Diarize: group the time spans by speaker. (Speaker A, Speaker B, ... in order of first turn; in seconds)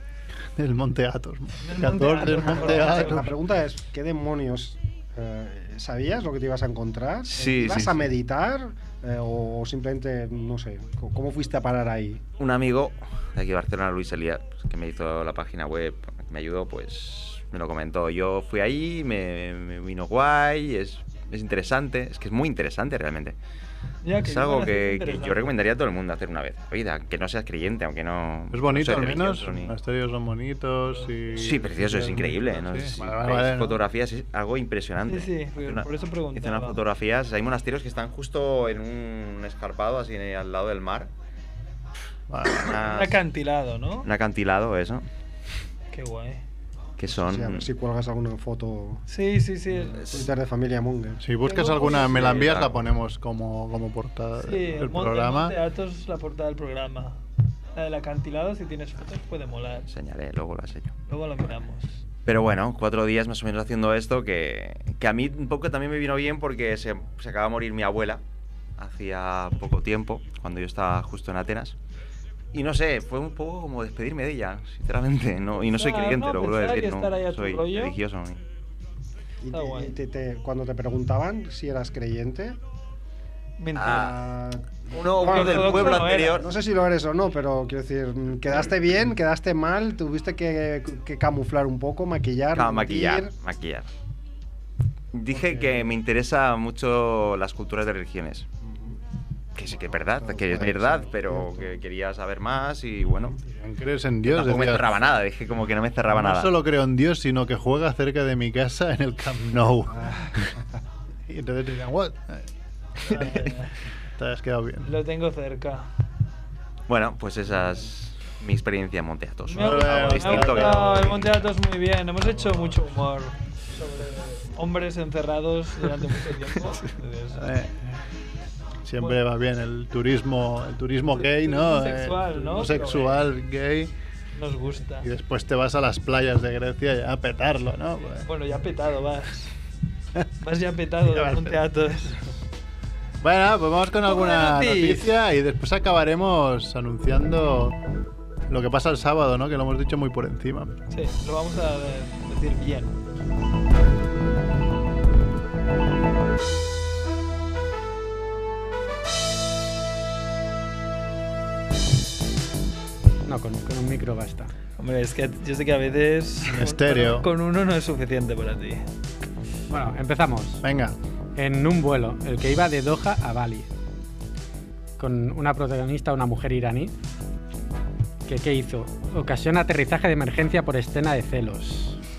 Speaker A: 0.6-3.3, 28.5-33.8, 42.3-42.8, 51.2-55.5, 103.5-105.0, 106.1-110.3, 111.3-112.5, 113.0-113.5, 114.2-114.9, 119.5-121.1, 127.3-128.0, 128.8-133.9, 135.0-138.3, 141.1-141.6, 143.2-147.8, 148.5-150.7, 166.4-167.3, 170.6-170.9
Speaker B: 1.6-3.2, 24.0-25.5, 35.1-36.8, 42.7-44.1, 45.9-46.4, 49.1-50.0, 51.4-52.4, 54.4-57.2, 57.8-59.9, 61.1-62.0, 75.6-77.9, 79.5-79.9, 83.6-84.1, 85.2-86.4, 113.1-113.7, 114.8-115.9, 119.5-127.5, 131.2-133.3, 134.3-135.1, 138.2-139.5, 140.4-142.2, 144.0-145.1, 150.9-152.9, 164.8-168.8
Speaker C: 2.5-12.2, 47.1-49.0, 50.1-51.2, 79.4-82.6, 83.8-93.3, 95.3-95.9, 98.6-99.0, 99.7-101.7, 109.9-110.3
Speaker D: 7.3-8.1, 12.4-23.4, 24.2-29.7, 31.4-41.1, 42.6-43.2, 44.0-45.0, 47.0-47.7, 50.0-50.3, 52.0-52.8, 59.9-60.9, 62.2-68.2, 68.8-71.7, 72.5-78.4, 83.7-84.2, 84.9-86.5, 92.5-93.9, 95.1-98.4, 99.5-103.3, 104.3-106.5, 116.9-121.4
Speaker E: 163.2-164.5, 169.7-170.6, 171.3-173.7, 175.0-176.9, 178.2-182.0